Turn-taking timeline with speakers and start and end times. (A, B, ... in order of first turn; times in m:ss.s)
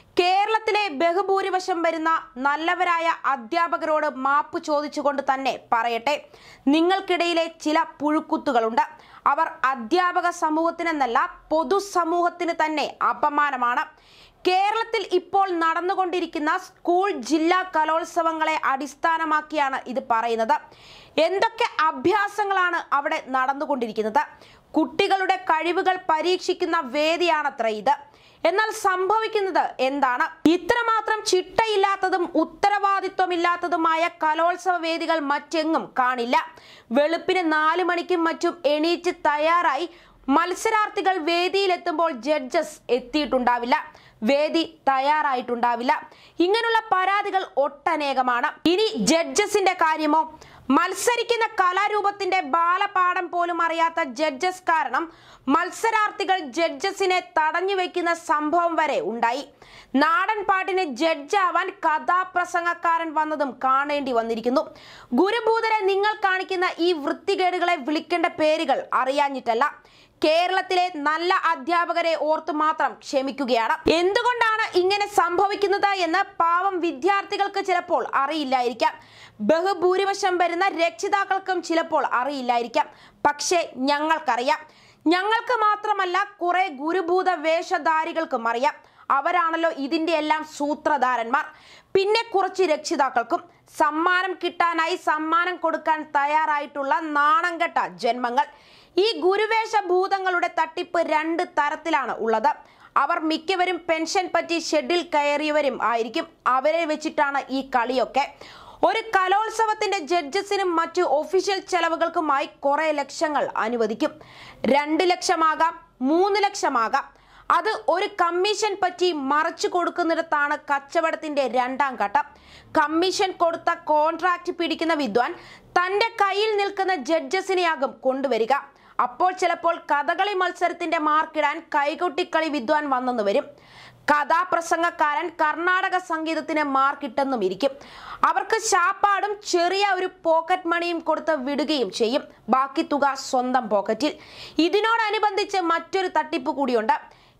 0:00.2-0:06.2 A
0:06.7-0:13.8 A
0:14.4-0:20.6 A
0:21.2-0:36.4 A
0:36.9-0:59.4 A
1:00.0-1:09.7 A
1:10.2-1:18.9 A
1:19.4-1:24.6 A
1:25.1-1:38.5 A
1:39.0-1:48.3 A
1:48.8-1:54.1 A
1:54.7-1:57.0 A
1:57.5-2:13.4 A
2:14.1-2:17.7 A
2:18.2-2:27.0 A